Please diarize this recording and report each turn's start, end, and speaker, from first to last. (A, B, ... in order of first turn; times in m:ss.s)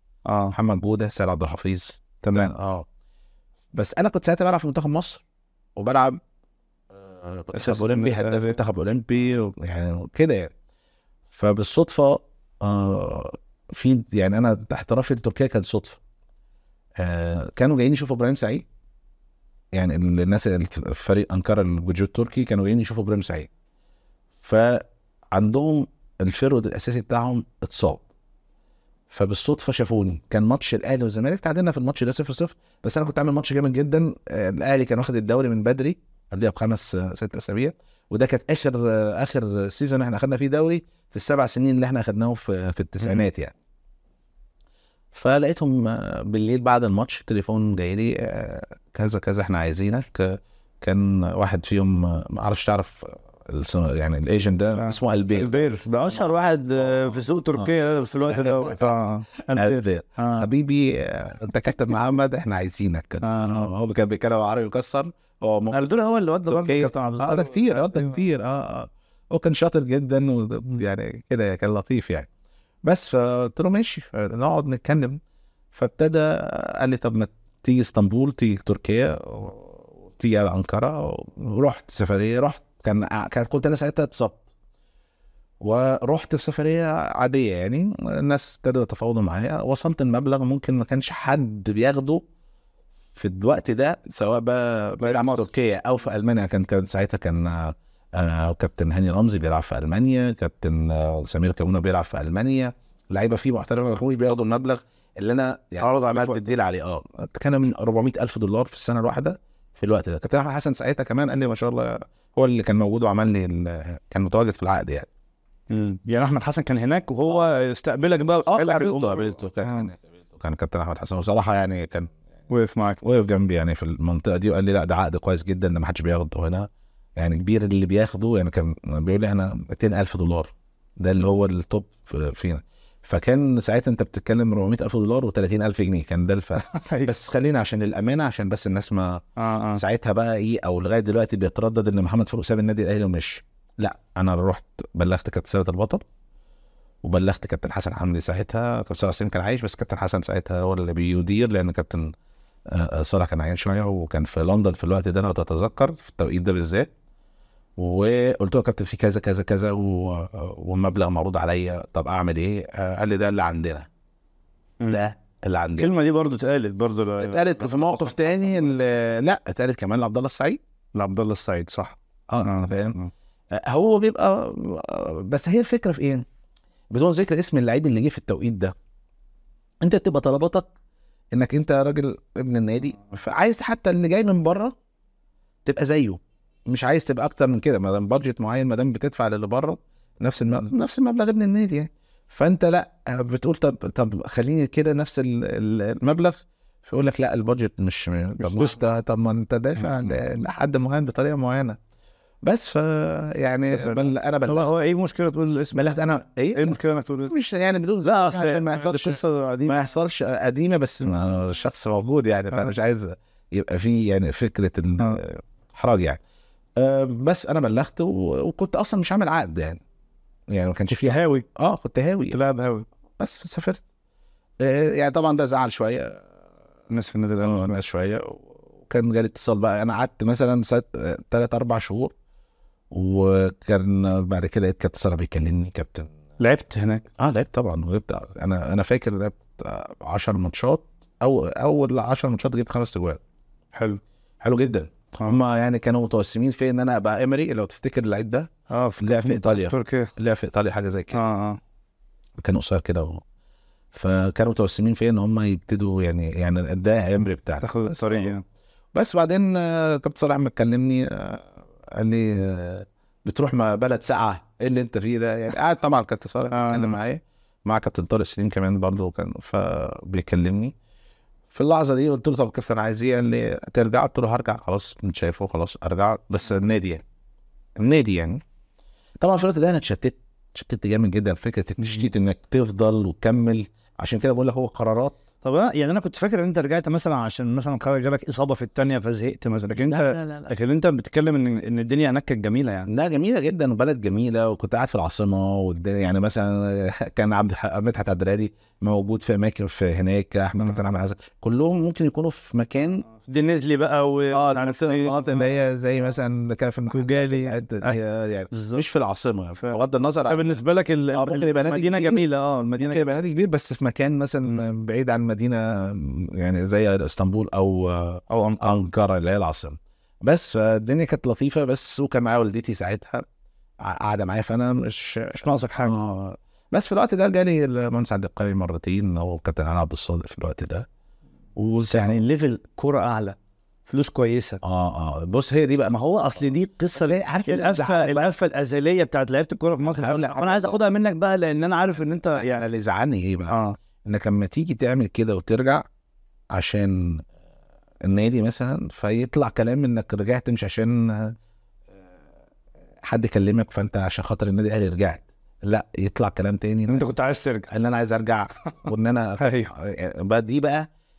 0:00.2-0:00.6 A
0:00.5-0:02.9 B
0:02.2-0:02.5 A
0:03.7-0:05.2 B
0:05.8-0:06.2 B
0:06.9-0:10.5 B
0:07.5-0:08.6 A
0:11.3-0:16.0 B
0:17.0-0:18.6 B
0:19.7-0:23.5 B
0:24.4-0:28.0 B
0:29.1-0:43.5 B
0:43.0-0:43.3 A
0:45.1-0:56.2 B
0:54.8-1:00.5 A
0:56.8-0:57.7 B
0:58.3-0:59.0 B
0:59.5-1:05.9 B
1:03.2-1:03.7 A
1:05.7-1:08.2 A
1:06.5-1:12.3 B
1:12.8-1:15.2 B
1:15.7-1:24.4 B
1:25.6-1:32.2 B
1:33.2-1:55.1 B
1:35.0-1:35.5 A
1:45.8-1:46.4 A
1:55.7-1:59.9 A
1:58.4-2:02.2 B
2:02.5-2:03.0 A
2:03.0-2:19.2 B
2:16.6-2:17.1 A
2:19.4-2:19.8 A
2:19.8-2:26.0 B
2:27.0-2:32.1 B
2:32.7-2:36.9 B
2:37.8-2:43.9 B
2:44.9-2:45.9 B
2:45.8-2:48.6 A
2:47.2-2:50.6 B
2:50.9-2:53.1 A
2:52.3-2:53.0 B
2:53.5-2:56.2 B
2:56.9-2:58.7 B
2:59.8-3:00.7 B
3:01.3-3:04.7 B
3:05.6-3:21.8 B
3:18.4-3:18.8 A
3:19.8-3:20.2 A
3:22.4-3:24.7 B
3:23.7-3:25.9 A
3:25.7-3:36.2 B
3:26.5-3:27.3 A
3:28.0-3:29.7 A
3:36.8-3:39.8 B
3:40.5-3:42.4 B
3:41.0-3:41.4 A
3:42.3-3:42.9 A
3:43.2-3:43.8 B
3:44.6-3:46.2 B
3:46.9-3:47.8 A
3:47.4-3:52.1 B
3:52.9-3:56.1 B
3:56.4-3:57.0 A
3:57.2-4:03.2 B
4:03.7-4:04.0 A
4:04.4-4:11.2 B
4:08.7-4:10.1 A
4:11.1-4:11.6 A
4:12.4-4:13.2 B
4:13.9-4:18.3 B
4:17.6-4:18.4 A
4:18.9-4:30.7 B
4:26.5-4:27.0 A
4:31.5-4:37.0 B
4:37.8-4:38.4 B
4:39.2-4:45.2 B
4:45.4-4:52.9 A
4:49.7-4:50.5 B
4:52.9-5:03.0 B
5:03.2-5:05.4 A
5:04.3-5:10.5 B
5:06.9-5:08.0 A
5:08.5-5:08.8 A
5:09.6-5:13.0 A
5:11.1-5:12.2 B
5:12.8-5:23.2 B
5:18.3-5:18.7 A
5:23.8-5:30.9 B
5:25.3-5:25.9 A
5:31.6-5:32.2 B
5:31.8-5:33.4 A
5:33.9-5:34.6 A
5:34.6-5:35.9 B
5:35.9-5:42.6 A
5:36.9-5:38.2 B
5:39.8-5:40.8 B
5:42.3-5:45.8 B
5:43.5-5:43.8 A
5:46.5-5:47.2 B
5:48.0-5:51.4 B
5:53.0-5:57.0 B
5:56.9-5:57.7 A
5:57.7-6:00.9 B
5:59.4-5:59.7 A